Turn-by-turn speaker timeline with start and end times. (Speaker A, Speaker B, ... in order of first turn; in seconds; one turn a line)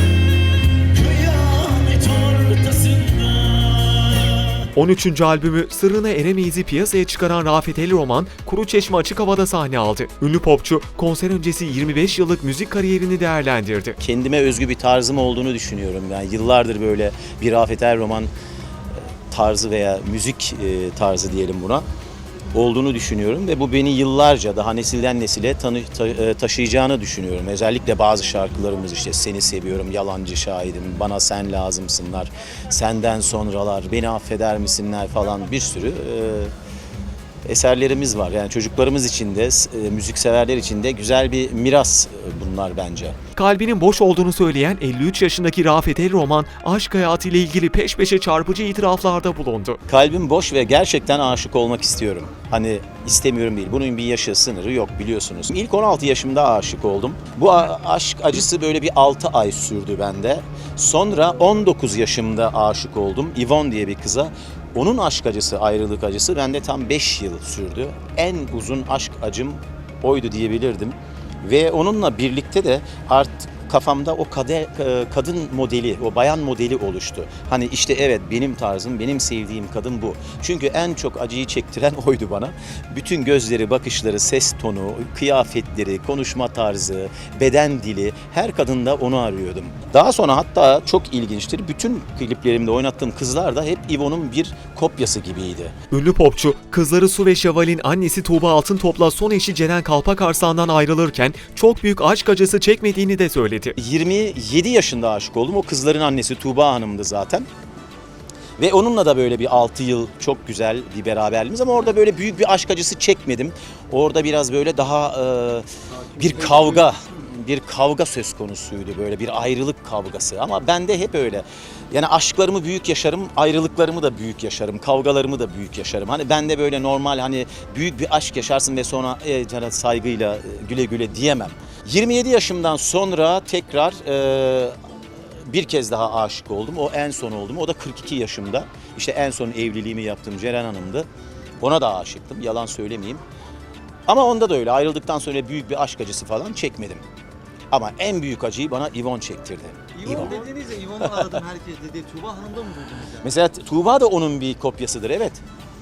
Speaker A: 1.4-2.1
Speaker B: 4.8-14.0
Speaker A: 14.0-18.3
Speaker A: 19.3-21.9
Speaker A: 22.5-36.5
Speaker A: 37.5-43.2
Speaker B: 43.4-49.8
Speaker A: 49.9-95.7
Speaker B: 95.9-103.7
Speaker A: 103.8-107.5
Speaker A: 108.6-134.8
Speaker C: 116.1-116.9
Speaker A: 135.4-141.1
Speaker A: 141.6-143.2
Speaker A: 144.1-147.0
Speaker A: 147.7-150.4
Speaker C: 150.0-153.3
Speaker A: 153.2-155.4